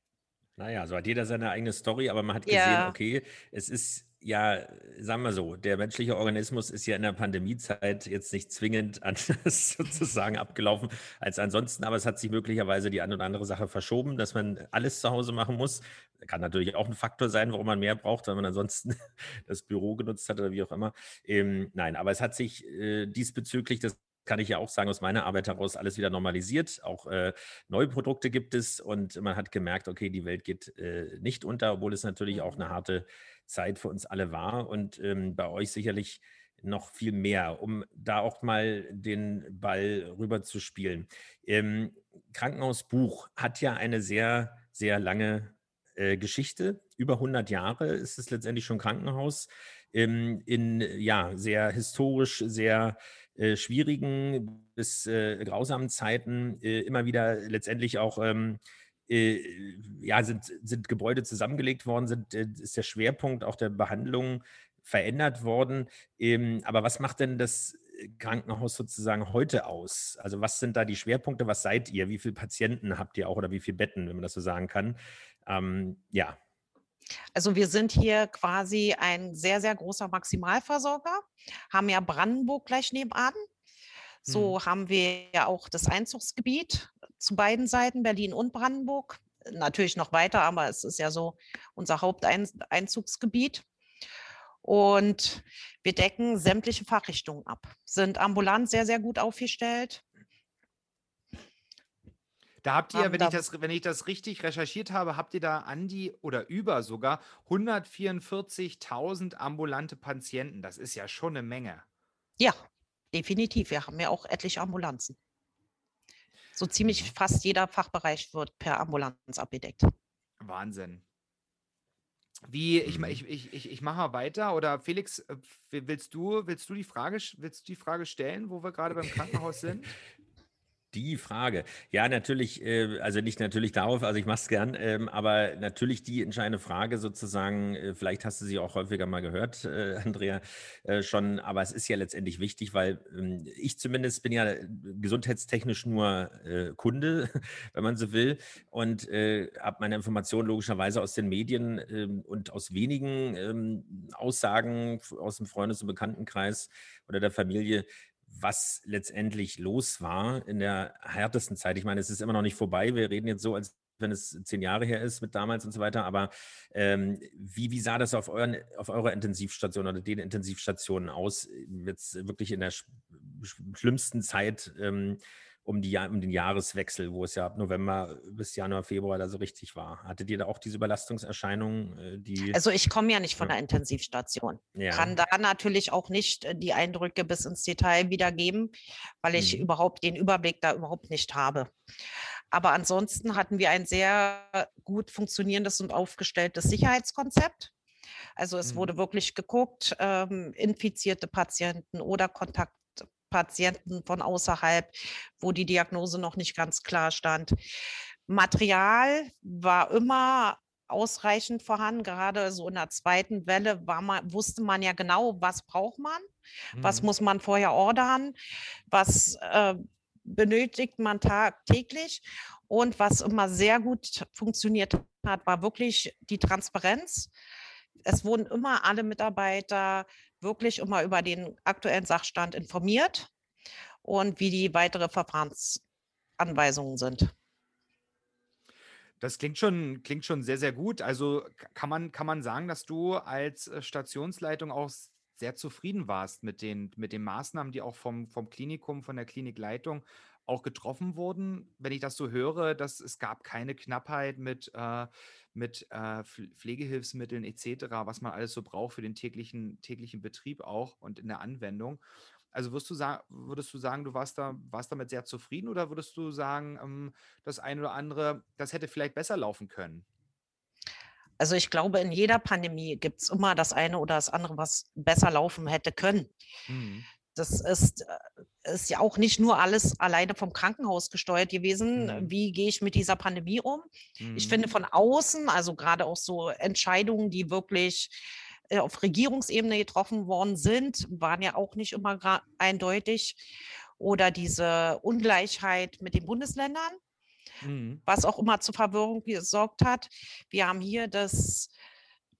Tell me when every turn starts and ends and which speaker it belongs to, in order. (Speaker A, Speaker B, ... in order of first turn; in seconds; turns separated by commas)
Speaker A: 0.6-76.4, Speaker B: 2.5-3.0, Speaker B: 32.3-32.6, Speaker B: 77.3-83.4, Speaker C: 84.3-84.5, Speaker B: 84.3-93.6, Speaker B: 94.6-100.0, Speaker C: 102.6-111.8, Speaker B: 102.9-103.4, Speaker B: 113.1-115.2, Speaker B: 116.5-119.9, Speaker C: 120.4-121.0, Speaker C: 122.5-129.9, Speaker A: 122.8-123.2, Speaker A: 130.9-182.6, Speaker B: 182.5-191.7, Speaker A: 184.8-185.1, Speaker A: 189.3-189.6, Speaker B: 192.5-197.7, Speaker B: 198.4-207.6, Speaker C: 198.6-198.9, Speaker B: 208.3-216.2, Speaker C: 216.7-217.1, Speaker B: 216.8-218.3, Speaker B: 218.9-227.3, Speaker B: 228.1-233.3, Speaker B: 234.0-235.8, Speaker B: 236.4-237.3, Speaker C: 239.2-262.0, Speaker C: 262.5-270.0, Speaker B: 271.4-276.3, Speaker C: 276.7-277.1, Speaker B: 277.3-297.0, Speaker C: 281.9-282.3, Speaker C: 284.2-284.6, Speaker C: 297.6-298.0, Speaker B: 298.1-301.7